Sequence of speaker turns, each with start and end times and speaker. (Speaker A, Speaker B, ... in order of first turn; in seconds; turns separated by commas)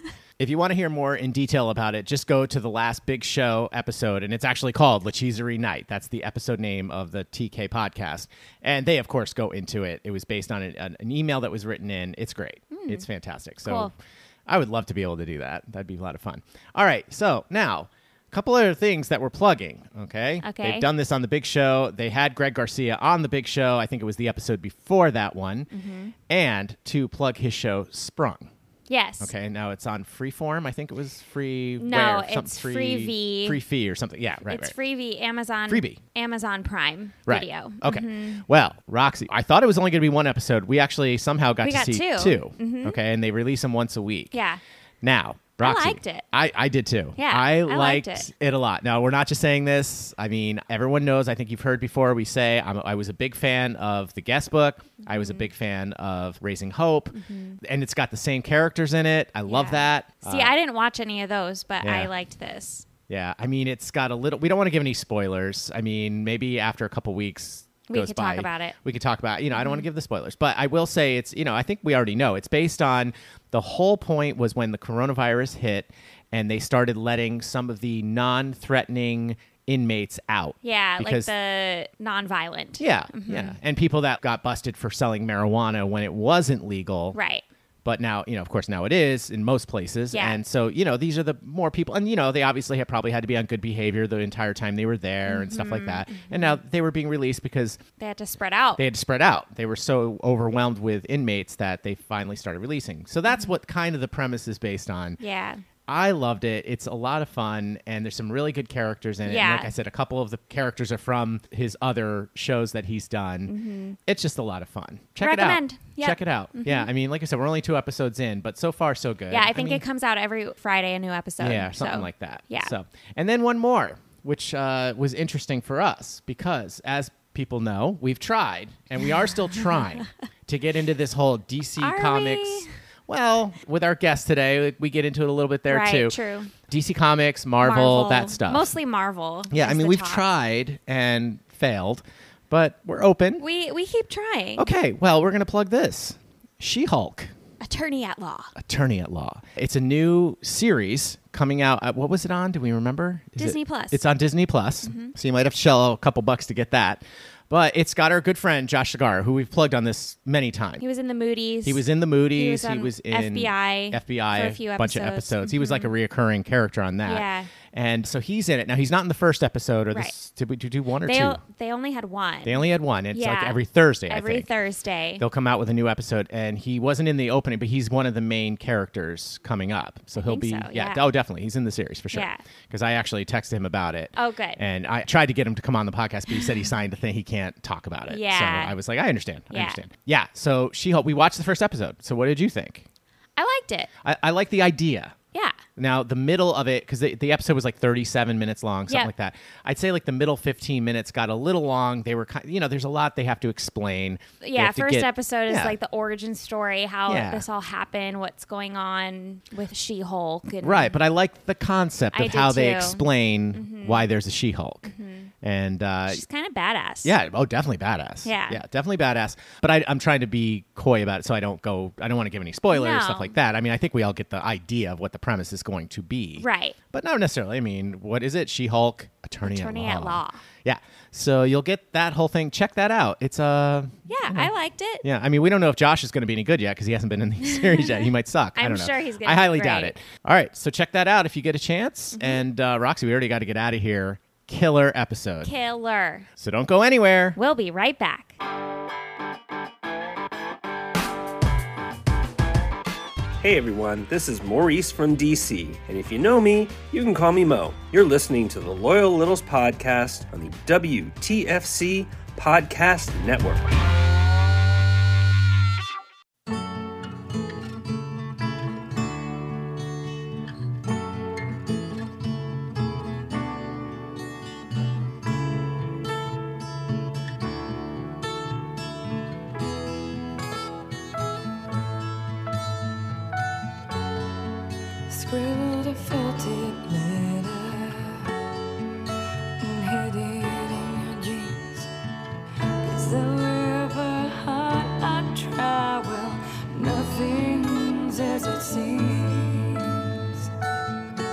Speaker A: 0.4-13.9, Speaker B: 12.7-13.1, Speaker B: 13.7-13.9, Speaker A: 14.5-25.7, Speaker B: 20.4-20.9, Speaker B: 25.7-26.1, Speaker A: 26.3-28.5, Speaker B: 28.9-29.3, Speaker A: 29.2-34.7, Speaker B: 31.8-33.6, Speaker B: 34.5-38.4, Speaker A: 35.7-36.0, Speaker A: 37.3-44.4, Speaker B: 41.6-43.0, Speaker B: 44.3-44.6, Speaker A: 45.0-60.5, Speaker B: 45.6-46.2, Speaker B: 47.2-48.3, Speaker B: 55.0-55.5, Speaker B: 57.1-57.6, Speaker B: 59.5-62.9, Speaker A: 61.8-62.1, Speaker A: 63.1-81.3, Speaker B: 67.9-68.8, Speaker B: 69.5-69.9, Speaker B: 80.6-83.6, Speaker A: 82.8-87.2, Speaker B: 87.1-87.4, Speaker A: 87.8-97.8, Speaker B: 90.1-90.4, Speaker B: 95.3-96.6, Speaker B: 98.0-98.8, Speaker A: 98.8-105.2, Speaker B: 103.3-103.5, Speaker B: 105.2-105.6, Speaker A: 105.9-113.5, Speaker B: 109.2-109.7, Speaker B: 113.5-114.0, Speaker A: 114.1-119.8, Speaker B: 115.2-116.9, Speaker B: 119.3-122.7, Speaker A: 121.4-136.2, Speaker B: 131.8-132.7, Speaker B: 135.7-136.5, Speaker A: 136.7-138.8, Speaker B: 137.6-140.2, Speaker A: 139.5-143.4, Speaker B: 143.4-144.7, Speaker A: 144.6-147.3, Speaker B: 147.6-148.5, Speaker A: 148.6-160.8, Speaker B: 153.4-154.0, Speaker B: 154.8-155.1, Speaker B: 160.8-161.8, Speaker A: 161.6-171.4, Speaker B: 162.4-165.9, Speaker B: 167.1-167.5, Speaker B: 171.1-175.2, Speaker A: 172.4-174.5, Speaker A: 175.2-192.9, Speaker B: 180.2-181.1, Speaker B: 182.1-182.4, Speaker B: 184.2-184.6, Speaker B: 188.1-188.8, Speaker B: 189.5-189.8, Speaker B: 193.4-193.9, Speaker A: 194.0-195.2, Speaker A: 195.8-205.8, Speaker B: 204.4-211.0, Speaker A: 207.1-207.4, Speaker A: 210.6-216.2, Speaker B: 212.1-214.1, Speaker B: 214.8-215.3, Speaker B: 216.1-217.1, Speaker A: 217.0-245.5, Speaker B: 218.2-218.6, Speaker B: 222.7-223.3, Speaker B: 226.4-226.8, Speaker B: 229.4-230.4, Speaker B: 234.1-235.1, Speaker B: 237.5-239.9, Speaker B: 242.2-242.4, Speaker B: 245.4-246.3, Speaker A: 246.4-247.4, Speaker B: 247.4-248.3, Speaker C: 253.4-263.7, Speaker D: 285.1-288.3, Speaker D: 289.6-291.9, Speaker D: 292.8-300.5